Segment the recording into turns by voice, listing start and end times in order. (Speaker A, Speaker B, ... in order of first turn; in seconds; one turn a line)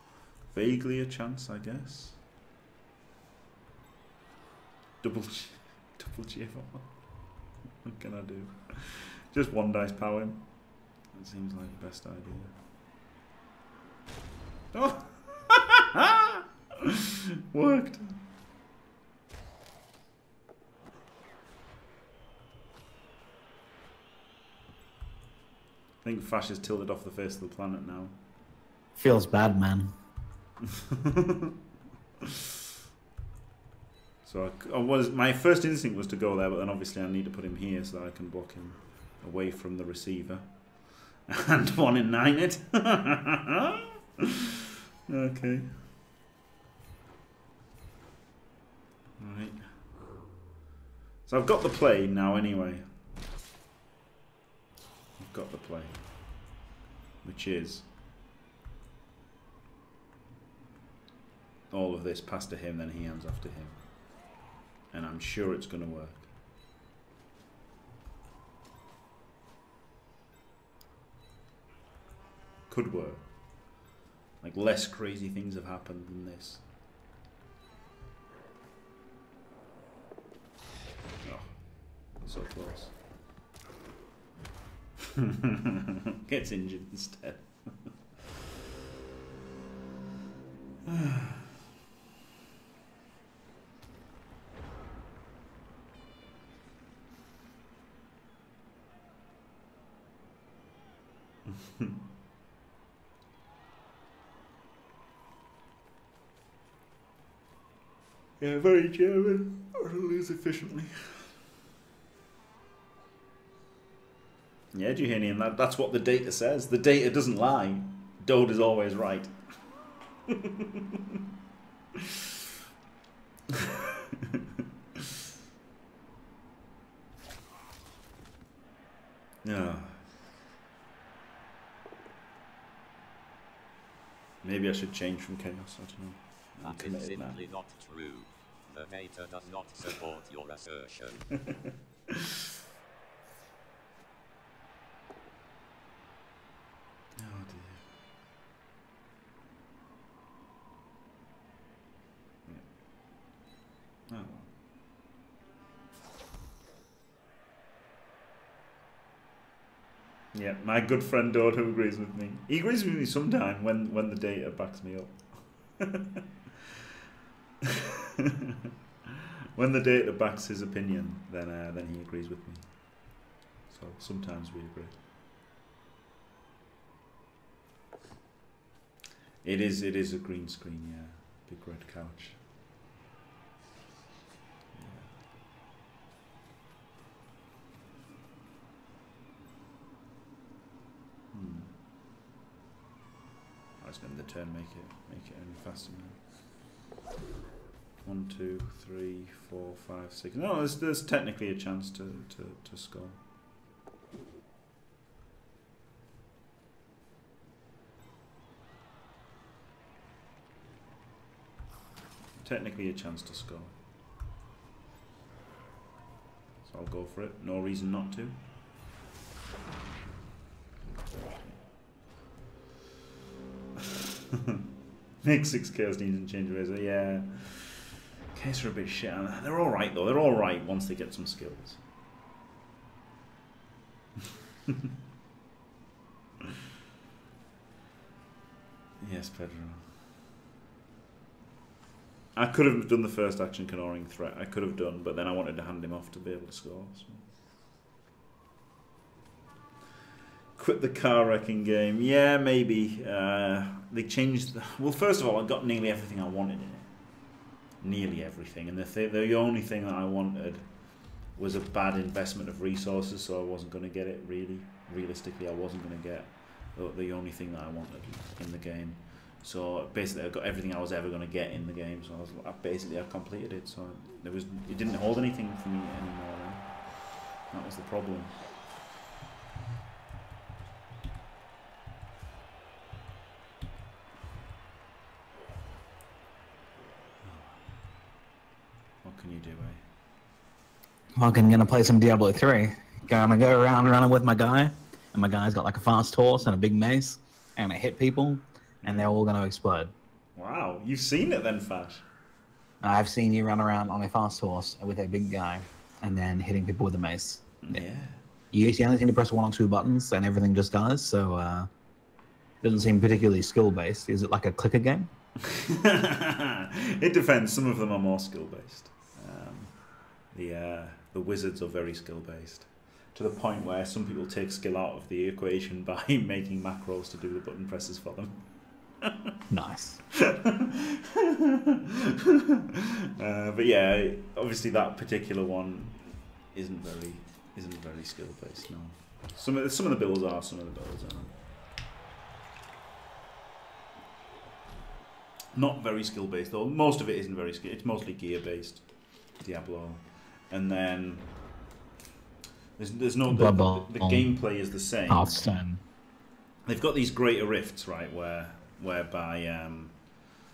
Speaker A: 0.5-2.2
Speaker A: 5.0-6.9
Speaker A: 7.8-12.5
Speaker A: 14.7-17.0
Speaker A: 17.5-18.2
Speaker A: 26.0-28.1
Speaker B: 28.9-29.9
Speaker A: 30.6-31.5
Speaker A: 34.2-44.2
Speaker A: 45.1-45.7
Speaker A: 49.2-49.6
Speaker A: 51.2-52.9
Speaker A: 55.2-56.0
Speaker A: 57.2-57.9
Speaker A: 61.7-63.8
Speaker A: 64.9-66.3
Speaker A: 72.7-73.3
Speaker A: 74.4-76.6
Speaker A: 81.2-82.9
Speaker A: 85.2-87.9
Speaker A: 90.8-91.4
Speaker A: 108.4-111.3
Speaker A: 114.7-119.3
Speaker A: 120.3-121.0
Speaker A: 123.5-123.8
Speaker A: 129.4-130.0
Speaker A: 134.4-137.4
Speaker C: 136.6-141.5
Speaker A: 147.2-147.8
Speaker A: 154.1-154.5
Speaker A: 160.3-166.2
Speaker A: 169.5-173.1
Speaker A: 173.7-175.0
Speaker A: 179.4-182.4
Speaker A: 184.7-185.1
Speaker A: 191.3-191.7
Speaker A: 193.8-196.2
Speaker A: 198.0-203.2
Speaker A: 212.4-213.7
Speaker A: 216.6-218.3
Speaker A: 221.1-221.6
Speaker A: 223.8-224.6
Speaker A: 225.2-231.8
Speaker A: 239.0-239.8
Speaker A: 242.3-247.3
Speaker A: 250.6-257.2
Speaker A: 257.8-278.4
Speaker A: 287.2-287.6
Speaker A: 289.0-289.8
Speaker B: 291.1-299.9
Speaker A: 298.8-299.1
Speaker A: 300.4-302.0
Speaker B: 302.8-307.8
Speaker A: 307.6-308.2
Speaker B: 308.5-311.7
Speaker B: 312.6-315.1
Speaker A: 315.4-328.4
Speaker B: 329.5-330.0
Speaker A: 330.2-341.4
Speaker A: 345.5-351.3
Speaker A: 352.8-355.4
Speaker B: 353.3-354.5
Speaker B: 355.1-355.8
Speaker A: 356.6-360.0